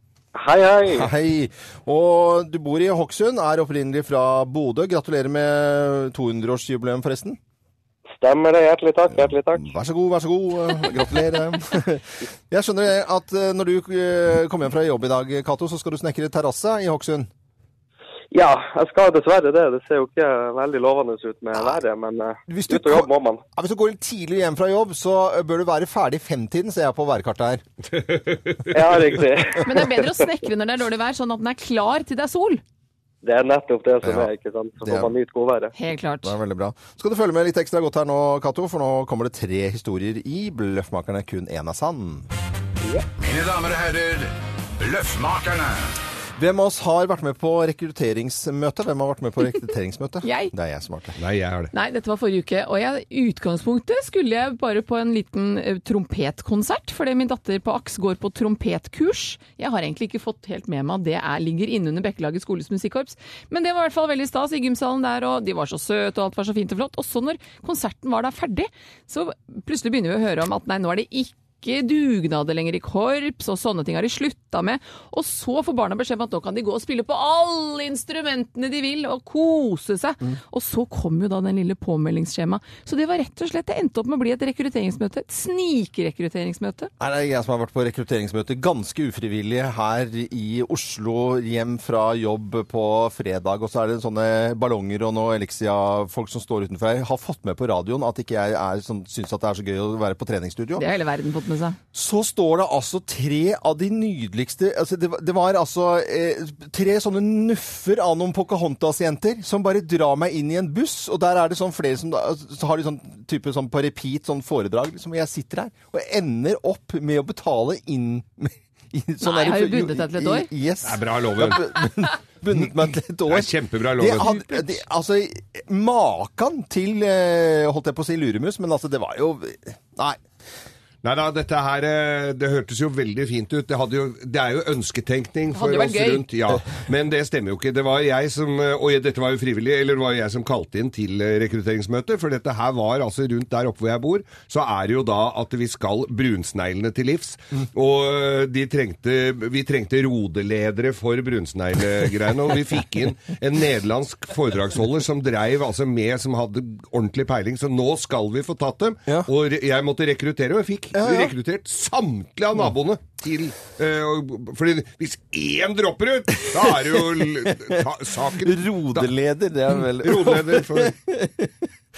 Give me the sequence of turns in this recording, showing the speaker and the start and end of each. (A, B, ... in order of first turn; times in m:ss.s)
0:00.4-0:01.1 A
0:00.9-0:07.4 B
0:08.2-0:09.7 A
0:09.1-0:17.3 B
0:18.3-0:23.4 A
0:21.5-0:21.8 B
0:22.5-0:27.6 B
0:27.9-0:29.1 C
0:28.7-0:30.2 A
0:29.6-0:32.6 D
0:33.2-0:35.7 A
0:34.0-0:34.3 B
0:34.8-0:35.1 B
0:35.8-0:36.4 D
0:36.2-0:42.3 B
0:43.2-0:45.9 E
0:46.4-0:51.2 B
0:50.2-0:50.5 D
0:51.2-0:51.7 C
0:51.7-1:26.9 D
1:27.0-1:40.8 B
1:40.8-1:41.8 D
1:41.9-2:10.2 B
1:59.2-2:00.5 D
2:00.8-2:01.8 C
2:03.3-2:04.3 C
2:04.2-2:04.6 D
2:11.0-2:49.1 C
2:15.5-2:16.3 D
2:40.9-2:41.3 B
2:46.5-2:51.7 B
2:49.9-2:51.0 C